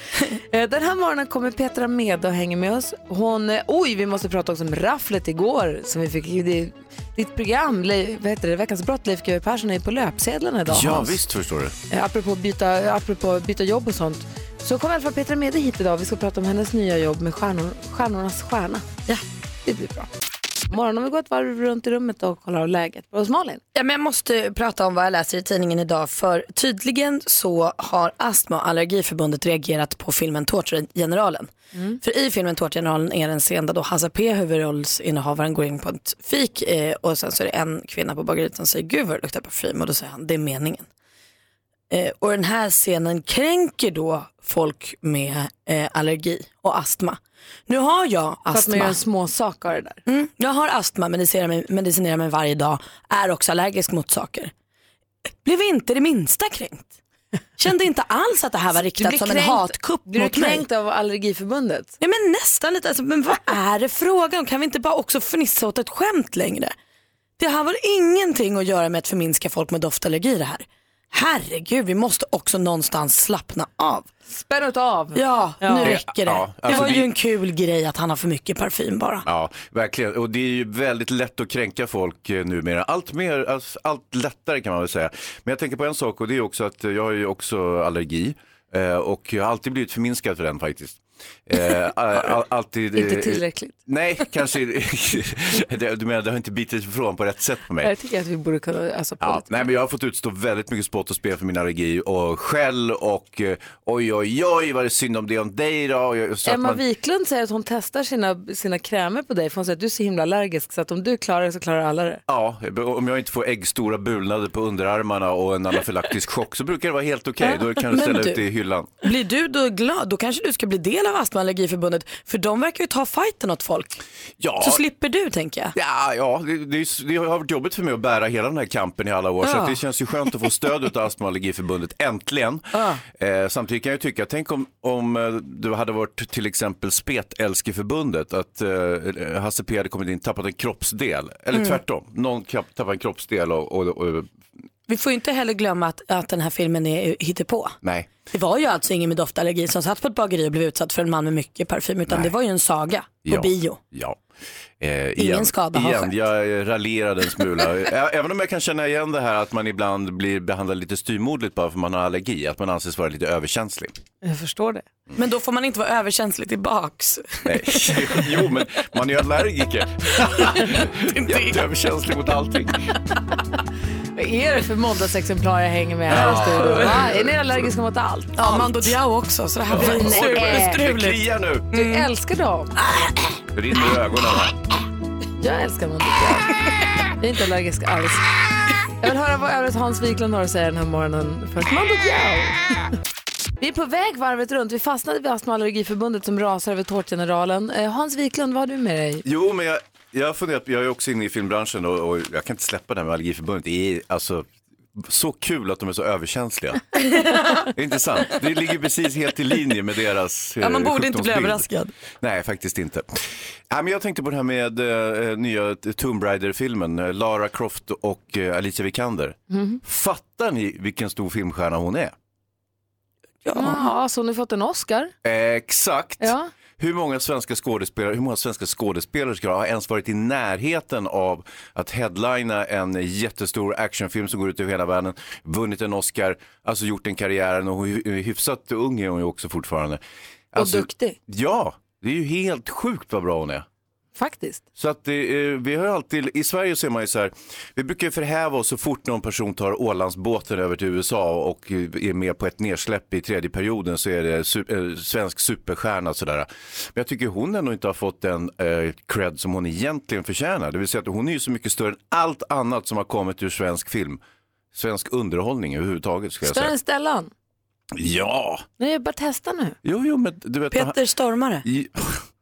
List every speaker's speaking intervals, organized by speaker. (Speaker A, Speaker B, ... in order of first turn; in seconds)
Speaker A: 0.3-11.2, 11.9-19.0, 19.7-20.1, 20.7-23.6, 48.5-50.0, 59.0-61.9, 74.3-76.0, 93.0-93.8, 97.8-99.7, 106.5-112.2, 164.2-164.8, 174.2-178.7, 179.8-180.8, 181.7-182.7, 185.4-186.5, 187.2-188.3, 189.0-192.8, 193.6-199.2, 219.5-219.8, 223.5-225.1, 226.2-226.5, 240.5-241.2, 244.2-244.6, 266.4-267.3, 268.8-269.8
Speaker B: 10.7-11.8, 75.8-77.1, 79.2-97.9, 99.2-106.8, 112.3-118.9, 124.4-124.8, 125.8-144.3, 147.8-148.1, 152.1-152.3, 153.3-154.2, 154.8-163.9, 167.4-172.8, 176.1-177.3, 179.7-181.7, 183.5-184.6, 199.2-206.8, 207.7-211.7, 212.2-222.2, 225.2-240.0, 240.5-243.7, 244.8-264.2, 264.7-266.7, 267.9-268.6, 269.8-271.0, 271.6-272.2
Speaker C: 23.7-31.5, 32.0-40.9, 41.9-49.0, 50.1-54.5, 55.4-56.9, 57.6-60.6, 62.0-66.8, 67.4-74.1, 75.2-79.2, 117.8-118.4, 119.0-124.0, 124.6-125.7, 129.4-129.8, 132.7-133.0, 141.5-141.8, 144.9-147.8, 148.3-153.8, 155.2-156.1, 165.2-168.3, 170.2-171.6, 176.2-177.0, 178.4-182.1, 182.8-183.2, 210.6-211.9, 223.4-223.8, 270.7-271.6